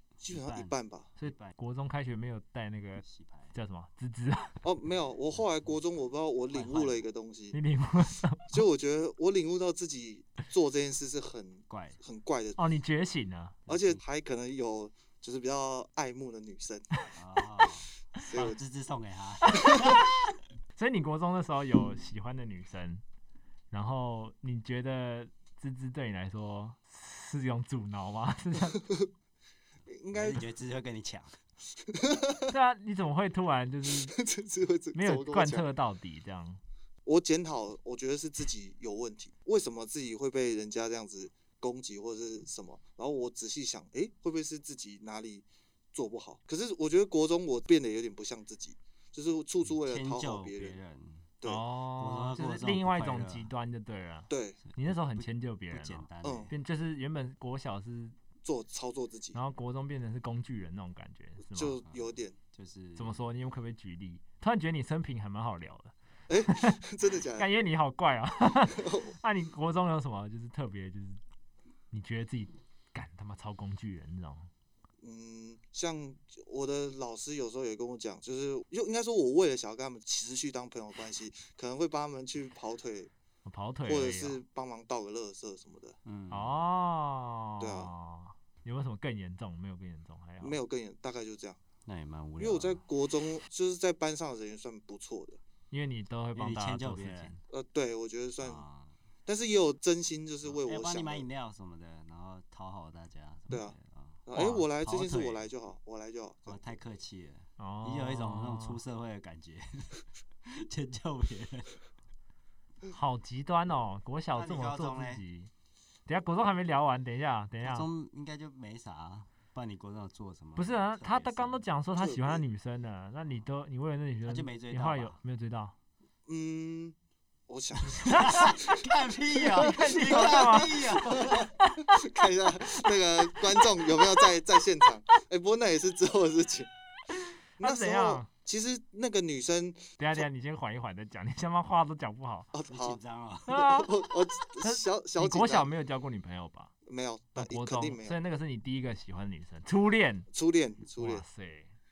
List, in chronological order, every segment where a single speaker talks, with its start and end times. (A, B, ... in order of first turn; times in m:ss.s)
0:00.2-0:01.1 A
0:00.3-0:01.5 B
0:01.2-0:04.6 C
0:03.0-0:03.5 B
0:04.6-0:07.6 A
0:06.5-0:07.0 B
0:07.5-0:08.6 C
0:08.5-0:12.6 A
0:11.7-0:12.0 B
0:12.6-0:13.6 C
0:13.7-0:14.0 B
0:13.7-0:16.9 A
0:17.2-0:20.4 B
0:18.2-0:18.6 A
0:19.4-0:20.0 C
0:20.8-0:23.0 C
0:23.7-0:28.8 C
0:28.8-0:29.1 A
0:29.9-0:30.4 A
0:30.1-0:31.4 B
0:31.9-0:32.5 A
0:32.5-0:34.2 C
0:33.9-0:35.7 A
0:34.9-0:36.6 C
0:37.1-0:50.8 A
0:49.8-0:51.3 B
0:51.4-0:58.2 C
0:52.0-0:53.5 B
0:54.3-0:54.6 A
0:54.7-0:56.5 B
0:56.2-0:56.5 A
0:58.4-0:59.4 A
0:59.3-1:01.8 C
1:01.5-1:02.3 A
1:01.9-1:03.2 B
1:03.0-1:05.9 C
1:06.3-1:07.5 A
1:06.4-1:06.8 C
1:07.4-1:11.2 C
1:08.7-1:09.1 A
1:11.9-1:14.5 C
1:15.0-1:23.1 A
1:23.4-1:24.4 C
1:23.9-1:26.0 A
1:26.0-1:26.6 B
1:26.3-1:30.6 C
1:27.6-1:27.9 A
1:30.4-1:31.6 A
1:31.8-1:32.8 B
1:32.4-1:35.4 A
1:35.7-1:37.4 C
1:36.3-1:37.4 B
1:37.5-1:38.6 A
1:38.4-1:38.9 B
1:39.3-1:41.3 A
1:40.4-1:44.3 B
1:43.5-1:43.8 A
1:44.3-1:46.7 A
1:44.3-1:44.7 C
1:44.8-1:45.5 B
1:46.5-1:51.7 B
1:47.6-1:48.8 C
1:52.9-1:55.5 C
1:54.3-1:55.2 B
1:56.1-1:57.9 C
1:57.6-2:01.6 B
2:00.6-2:05.7 C
2:02.0-2:02.4 A
2:04.3-2:05.2 B
2:06.3-2:06.9 A
2:07.5-2:08.9 A
2:07.9-2:11.5 B
2:08.1-2:08.5 C
2:09.5-2:16.7 A
2:09.5-2:12.0 C
2:17.6-2:18.3 C
2:17.6-2:19.9 A
2:20.0-2:22.5 C
2:22.5-2:23.0 A
2:22.7-2:23.6 B
2:23.5-2:23.9 C
2:23.5-2:25.7 A
2:24.6-2:26.7 C
2:26.8-2:28.2 A
2:27.4-2:30.3 C
2:30.3-2:31.2 A
2:31.0-2:31.7 C